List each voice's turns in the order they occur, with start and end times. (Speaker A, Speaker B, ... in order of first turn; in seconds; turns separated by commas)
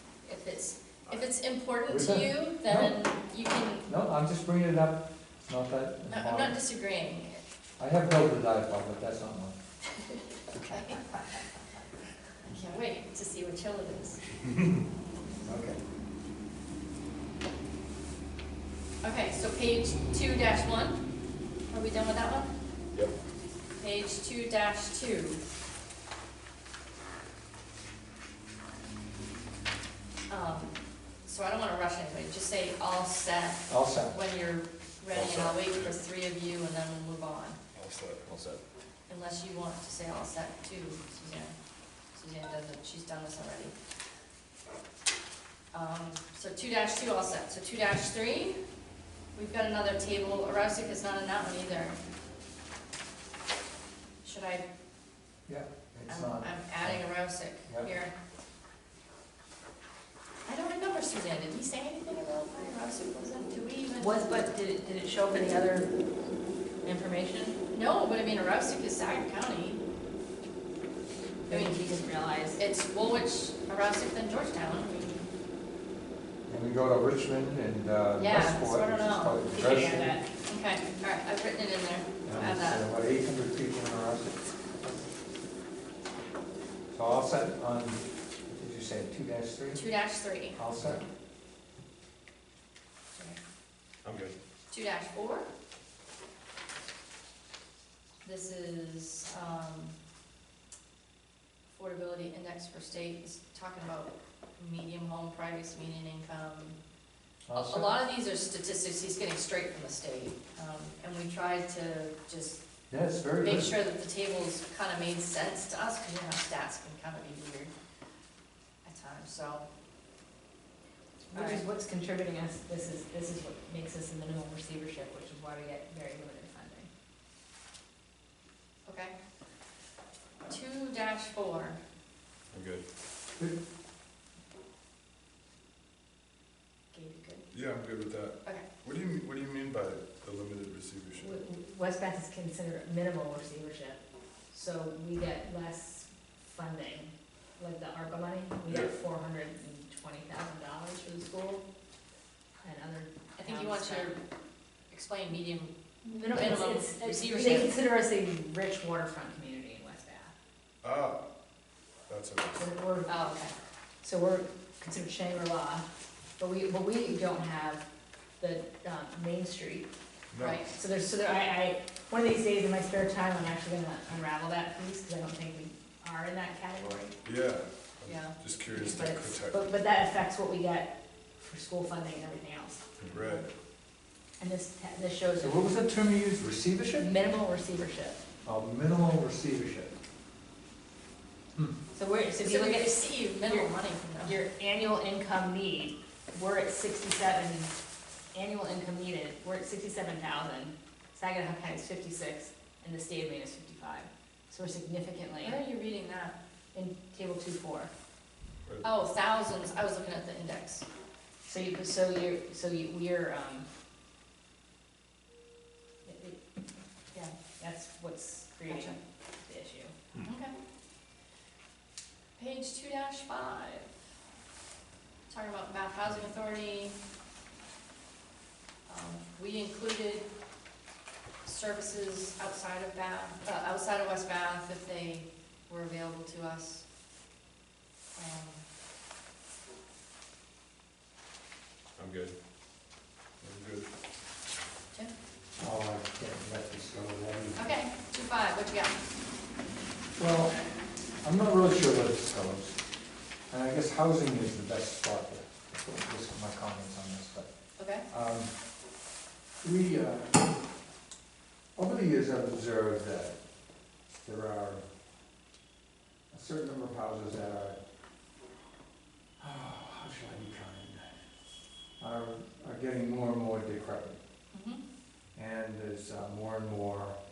Speaker A: 0.2-3.9, Speaker B: 1.9-3.0, Speaker B: 3.9-6.6, Speaker A: 6.1-7.4, Speaker B: 7.8-9.6, Speaker B: 10.5-11.0, Speaker A: 10.6-11.3, Speaker A: 12.4-14.2, Speaker B: 15.4-15.8, Speaker A: 19.0-21.0, Speaker A: 21.7-22.5, Speaker A: 23.8-25.4, Speaker A: 30.3-37.6, Speaker B: 33.7-34.2, Speaker C: 35.1-35.9, Speaker C: 37.7-38.5, Speaker A: 39.1-41.5, Speaker A: 42.1-43.7, Speaker A: 45.7-48.6, Speaker A: 49.4-52.0, Speaker A: 54.2-54.6, Speaker B: 55.5-57.0, Speaker A: 56.1-58.1, Speaker B: 57.6-57.9, Speaker A: 60.5-64.3, Speaker D: 64.0-65.9, Speaker D: 66.8-67.6, Speaker A: 67.7-69.8, Speaker D: 71.5-72.6, Speaker A: 71.5-71.8, Speaker A: 72.5-75.3, Speaker B: 76.5-80.2, Speaker A: 78.2-79.4, Speaker D: 79.5-80.3, Speaker A: 80.5-82.9, Speaker B: 82.2-85.1, Speaker B: 86.9-89.8, Speaker A: 89.7-90.6, Speaker B: 90.5-91.0, Speaker C: 94.0-94.3, Speaker A: 94.7-95.5, Speaker A: 98.2-99.9, Speaker A: 101.7-106.8, Speaker B: 107.5-107.9, Speaker A: 107.5-112.6, Speaker B: 112.9-113.7, Speaker A: 113.4-117.7, Speaker A: 118.8-119.7, Speaker D: 121.3-126.9, Speaker A: 121.3-121.6, Speaker A: 128.8-129.1, Speaker A: 130.5-131.8, Speaker C: 132.5-132.8, Speaker A: 136.9-137.4, Speaker C: 137.5-141.3, Speaker D: 141.2-151.6, Speaker C: 148.7-148.9, Speaker D: 152.6-154.1, Speaker A: 153.4-154.2, Speaker A: 154.9-155.7, Speaker D: 156.0-160.3, Speaker A: 156.2-157.7, Speaker C: 160.8-161.2, Speaker C: 162.1-162.7, Speaker D: 162.6-163.1, Speaker A: 163.1-163.5, Speaker D: 164.0-165.9, Speaker D: 166.4-167.8, Speaker D: 168.4-169.9, Speaker C: 170.3-170.7, Speaker A: 170.4-170.7, Speaker D: 170.7-177.1, Speaker C: 177.2-179.6, Speaker A: 178.1-178.3, Speaker D: 178.7-182.8, Speaker C: 183.0-183.4, Speaker D: 184.4-185.7, Speaker B: 185.4-187.1, Speaker D: 187.0-188.2, Speaker B: 188.4-189.9, Speaker D: 191.9-193.7, Speaker A: 192.4-194.4, Speaker D: 194.2-197.7, Speaker D: 198.3-205.6, Speaker A: 205.4-206.3, Speaker D: 206.7-207.9, Speaker A: 208.8-210.8, Speaker D: 211.4-213.7, Speaker D: 216.0-216.4, Speaker D: 217.6-219.9, Speaker A: 218.7-219.0, Speaker A: 220.2-220.5, Speaker A: 222.4-223.9, Speaker A: 225.3-226.9, Speaker A: 228.9-230.2, Speaker A: 231.4-236.8, Speaker A: 238.2-238.6, Speaker C: 242.0-242.3, Speaker C: 243.4-243.9, Speaker B: 245.6-247.6, Speaker A: 247.6-248.9, Speaker B: 250.2-250.6, Speaker B: 251.2-252.8, Speaker B: 253.5-257.5, Speaker A: 257.8-258.1, Speaker B: 258.1-258.5, Speaker B: 259.6-260.4, Speaker B: 261.8-263.4, Speaker B: 264.2-264.8, Speaker B: 266.3-267.8, Speaker B: 269.4-271.1, Speaker B: 272.0-274.2, Speaker A: 274.5-274.8, Speaker B: 275.3-277.1